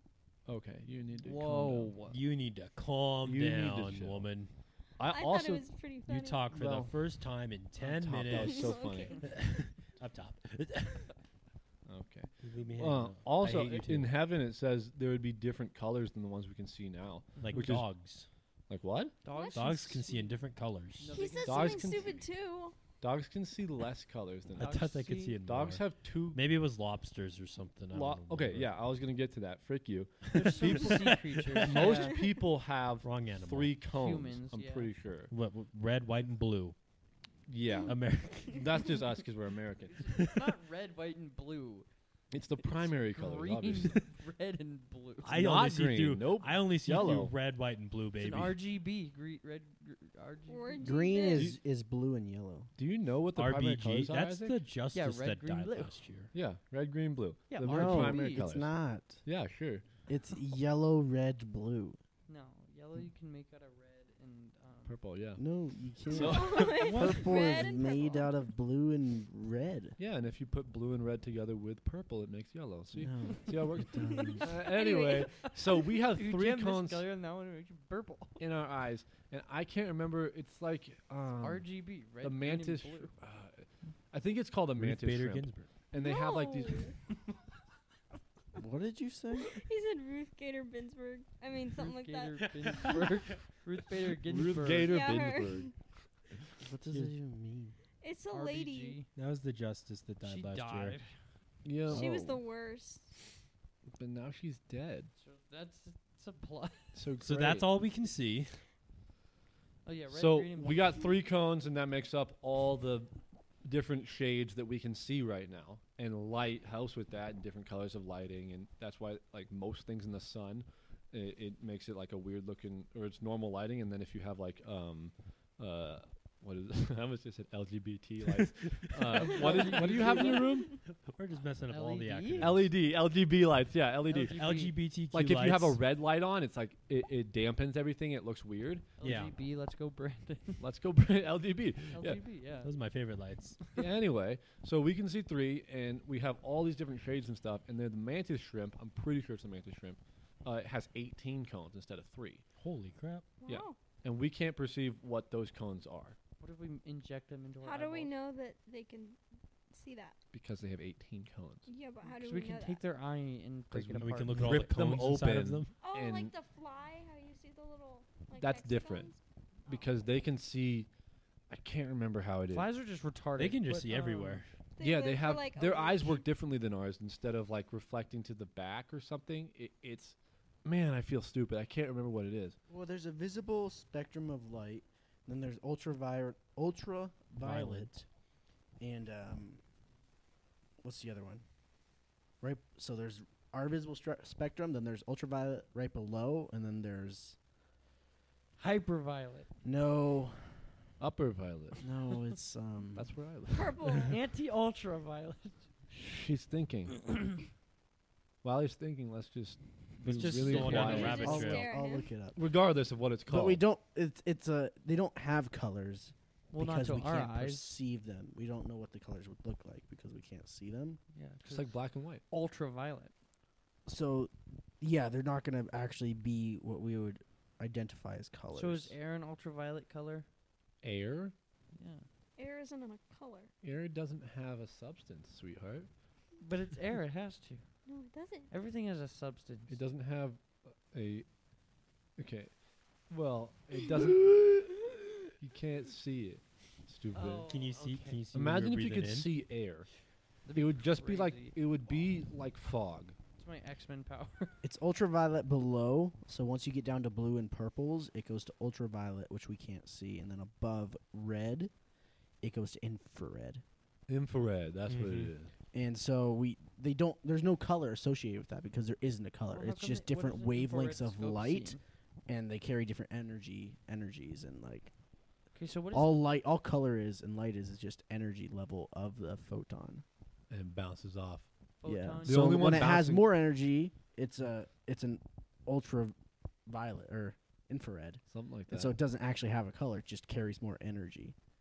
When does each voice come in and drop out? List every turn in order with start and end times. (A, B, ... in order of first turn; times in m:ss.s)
0:00.5-0:02.1 A
0:01.2-0:02.2 B
0:02.1-0:04.5 C
0:03.2-0:04.3 A
0:05.0-0:05.6 A
0:05.0-0:06.5 D
0:06.0-0:11.1 C
0:06.5-0:06.9 A
0:07.8-0:09.2 A
0:08.3-0:09.2 D
0:11.9-0:17.9 A
0:12.4-0:14.1 C
0:17.4-0:18.3 C
0:18.7-0:19.2 A
0:19.2-0:20.4 B
0:19.3-0:20.0 D
0:19.5-0:21.2 C
0:21.0-0:22.1 B
0:21.1-0:22.7 D
0:21.4-0:22.2 A
0:23.0-0:24.9 A
0:24.6-0:28.7 C
0:24.6-0:25.4 B
0:25.4-0:26.4 A
0:27.9-0:31.1 A
0:30.3-0:31.9 C
0:30.3-0:32.2 B
0:31.6-0:35.3 A
0:33.0-0:33.8 C
0:34.0-0:34.9 B
0:35.3-0:36.8 C
0:37.5-0:40.0 A
0:37.8-0:38.7 C
0:39.9-0:41.9 B
0:42.3-0:44.0 A
0:42.6-0:45.4 B
0:45.2-0:48.6 C
0:45.3-0:47.3 A
0:48.2-0:51.2 B
0:50.5-0:51.5 D
0:50.8-0:52.7 E
0:52.8-0:54.6 A
0:53.3-0:56.3 C
0:54.9-0:55.9 B
0:56.3-0:58.7 A
0:57.5-0:58.4 B
0:57.7-0:59.2 E
0:59.2-0:59.8 A
1:00.1-1:02.0 E
1:02.3-1:05.0 B
1:04.9-1:05.4 A
1:05.4-1:10.0 E
1:06.0-1:07.5 A
1:06.1-1:08.3 D
1:10.0-1:17.0 A
1:12.9-1:14.5 E
1:14.1-1:15.5 D
1:16.0-1:18.4 B
1:18.4-1:21.6 A
1:21.4-1:23.1 B
1:22.2-1:26.9 A
1:24.8-1:25.7 C
1:25.9-1:26.9 D
1:28.6-1:29.5 E
1:29.4-1:33.0 D
1:31.7-1:35.1 B
1:32.4-1:33.0 C
1:34.2-1:35.7 A
1:34.8-1:35.7 D
1:36.6-1:37.8 E
1:38.0-1:39.0 D
1:38.3-1:39.1 B
1:39.1-1:41.0 C
1:40.2-1:41.1 B
1:41.6-1:42.4 A
1:41.9-1:43.1 D
1:41.9-1:42.3 E
1:43.9-1:45.1 A
1:45.2-1:47.0 B
1:46.9-1:47.7 A
1:47.2-1:48.6 C
1:49.8-1:51.0 B
1:50.1-1:53.1 A
1:53.6-2:10.7 A
2:08.4-2:09.0 C
2:09.0-2:10.6 B
2:09.6-2:10.3 C
2:10.8-2:12.7 C
2:11.7-2:12.5 B
2:12.4-2:14.4 A
2:14.1-2:14.7 B
2:14.2-2:15.8 C
2:15.1-2:18.9 A
2:19.0-2:20.6 B
2:19.0-2:19.3 C
2:20.6-2:22.2 A
2:21.9-2:22.7 B
2:22.6-2:23.6 C
2:23.7-2:32.4 A
2:32.6-2:33.3 C
2:33.4-2:33.8 D
2:33.4-2:36.2 A
2:36.4-2:38.1 B
2:37.6-2:39.2 D
2:39.7-2:40.2 D
2:40.3-2:41.7 A
2:41.7-2:42.8 D
2:42.0-2:44.7 B
2:43.7-2:46.3 A
2:44.0-2:45.7 C
2:45.8-2:49.2 D
2:48.4-2:49.1 A
2:49.7-2:50.9 A
2:51.5-2:52.7 A
2:52.5-2:54.4 B
2:53.4-2:54.5 C
2:54.8-2:56.2 D
2:54.8-3:02.6 A
3:02.7-3:08.0 E
3:07.4-3:07.8 A
3:07.4-3:07.9 C
3:08.8-3:09.6 E
3:10.8-3:11.4 E
3:12.4-3:17.4 E
3:18.6-3:19.5 B
3:19.6-3:20.6 E
3:21.0-3:21.8 A
3:21.8-3:23.1 E
3:22.9-3:24.1 A
3:23.5-3:24.2 D
3:24.0-3:25.7 B
3:25.9-3:27.1 A
3:28.4-3:31.6 A
3:30.0-3:31.7 C
3:30.3-3:31.4 B
3:30.7-3:32.1 D
3:31.2-3:32.4 E
3:32.3-3:33.6 A
3:33.3-3:41.0 E
3:36.5-3:37.7 B
3:41.1-3:41.7 B
3:41.4-3:42.2 A
3:42.3-3:43.1 B
3:43.8-3:48.9 E
3:48.5-3:50.3 B
3:50.8-3:51.3 A
3:51.7-3:52.0 B
3:52.4-3:53.5 D
3:53.6-3:55.9 A
3:56.4-3:57.6 B
3:57.8-3:58.5 D
3:58.5-3:59.8 B
3:59.7-4:01.2 A
4:02.2-4:02.5 A
4:03.1-4:04.8 A
4:05.4-4:07.4 A
4:07.1-4:08.2 B
4:07.4-4:09.3 C
4:08.3-4:09.9 A
4:10.4-4:11.6 B
4:10.5-4:13.2 A
4:13.4-4:14.6 B
4:14.6-4:21.7 E
4:22.4-4:23.6 E
4:24.1-4:25.5 A
4:24.9-4:25.3 C
4:25.7-4:34.9 E
4:29.5-4:31.8 B
4:35.5-4:36.2 B
4:35.9-4:40.0 E
4:40.5-4:41.5 A
4:41.8-4:42.5 B
4:41.8-4:46.1 E
4:42.2-4:43.3 A
4:46.6-4:51.3 E
4:48.3-4:49.0 A